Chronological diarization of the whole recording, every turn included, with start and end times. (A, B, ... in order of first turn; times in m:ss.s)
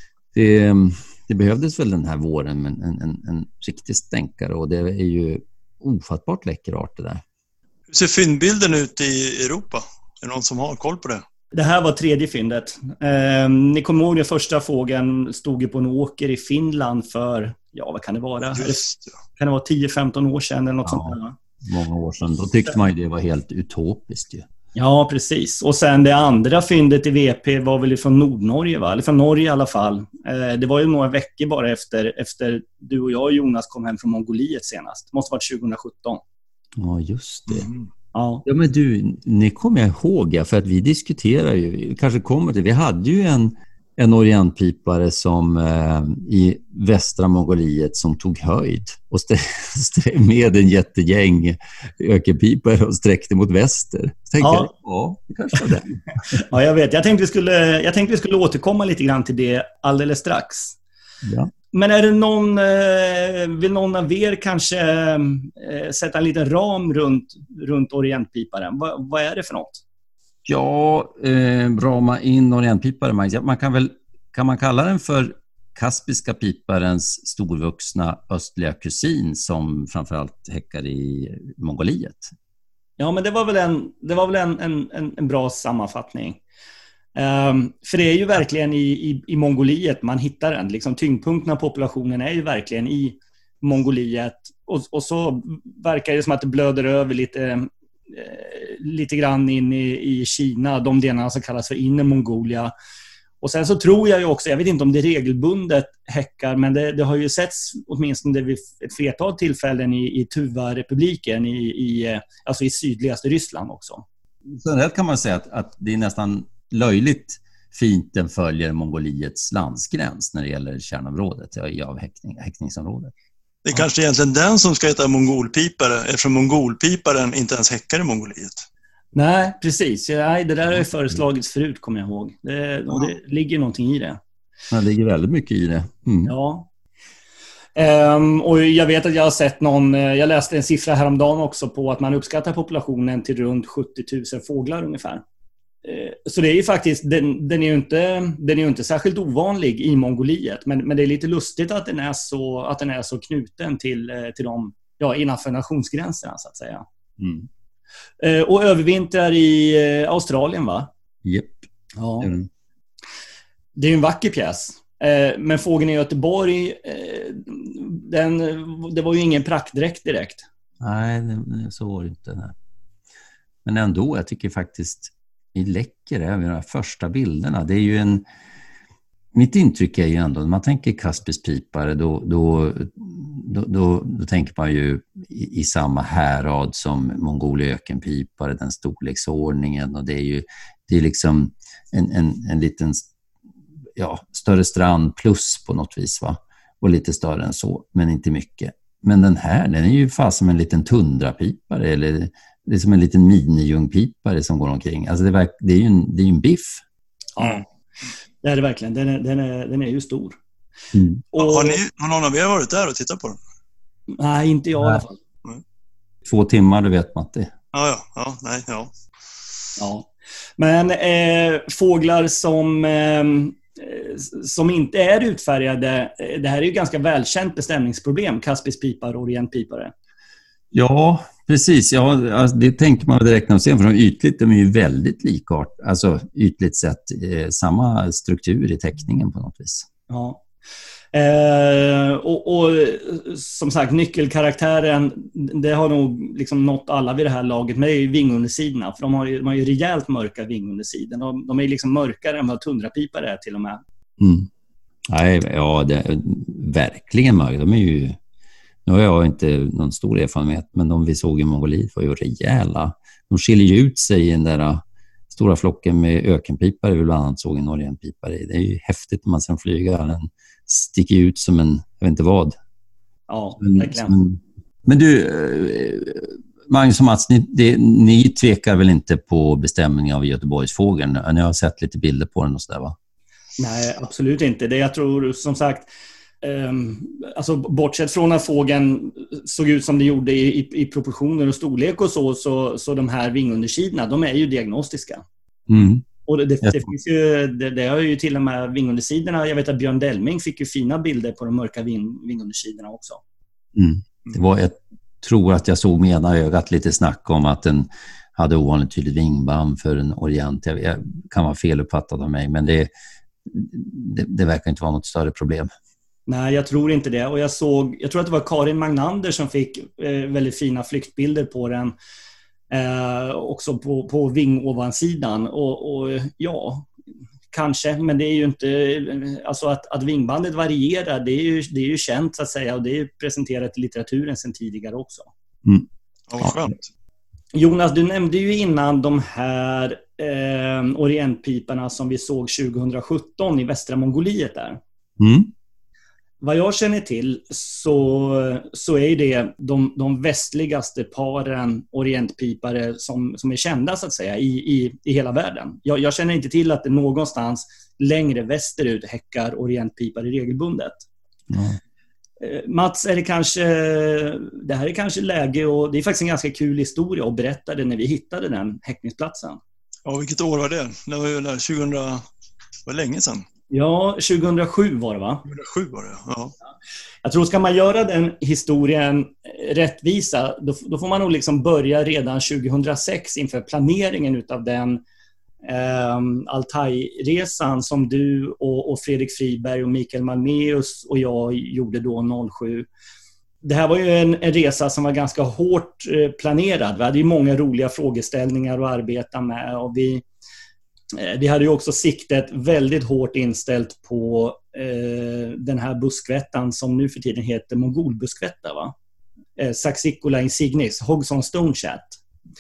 0:00.3-0:07.2 A
0:07.9-0:11.2 B
0:11.5-0:18.8 C
0:18.6-0:19.2 B
0:19.4-0:21.4 C
0:20.8-0:24.5 A
0:24.8-0:36.2 C
0:36.8-0:37.7 A
0:37.5-0:37.9 B
0:38.1-0:38.4 C
0:38.5-0:56.3 A
0:54.4-0:54.7 C
0:56.3-1:00.8 C
1:01.2-1:01.5 A
1:01.7-1:09.8 C
1:10.5-1:22.3 A
1:23.0-1:26.4 C
1:27.2-1:42.7 C
1:43.4-1:54.0 C
1:54.5-2:03.1 A
2:03.6-2:08.7 B
2:09.1-2:14.2 C
2:14.7-2:16.3 A
2:16.2-2:16.7 C
2:17.8-2:25.2 C
2:25.8-2:36.9 C
2:37.2-2:37.4 A
2:38.2-2:40.9 C
2:41.2-2:41.6 A
2:42.0-2:42.3 C
2:42.2-2:42.5 A
2:43.8-2:50.5 C
2:50.8-2:52.5 A
2:53.6-2:58.2 A
2:59.3-3:13.1 A
3:14.0-3:26.8 A
3:27.4-3:27.7 C
3:28.4-3:30.4 C
3:30.9-3:31.2 A
3:31.3-3:31.8 C
3:31.4-3:33.4 B
3:34.2-3:35.2 C
3:36.3-3:37.5 A
3:37.7-3:38.9 B
3:39.8-3:49.9 C
3:50.7-3:59.9 A
4:00.1-4:00.4 C
4:01.1-4:13.8 C
4:14.2-4:14.5 A
4:15.1-4:18.2 A
4:18.9-4:32.6 A
4:33.3-4:34.2 C
4:33.6-4:43.0 A
4:43.6-4:45.9 C
4:46.4-4:55.2 C
4:55.7-4:56.0 A
4:56.2-5:03.2 C
4:56.6-4:56.9 A
5:03.8-5:12.9 A
5:13.5-5:15.7 A
5:16.3-5:22.0 C
5:22.7-5:26.9 C
5:27.5-5:35.3 C
5:36.3-5:36.8 B
5:37.5-5:44.8 C
5:45.2-5:45.5 A
5:46.4-6:01.0 C
6:01.5-6:01.8 A
6:02.4-6:09.6 C
6:10.1-6:12.2 B
6:12.9-6:13.4 B
6:13.7-6:15.4 C
6:15.5-6:16.5 B
6:17.2-6:25.0 C
6:25.6-6:32.9 C
6:33.6-6:40.2 C
6:41.1-6:48.9 C
6:49.6-6:52.2 C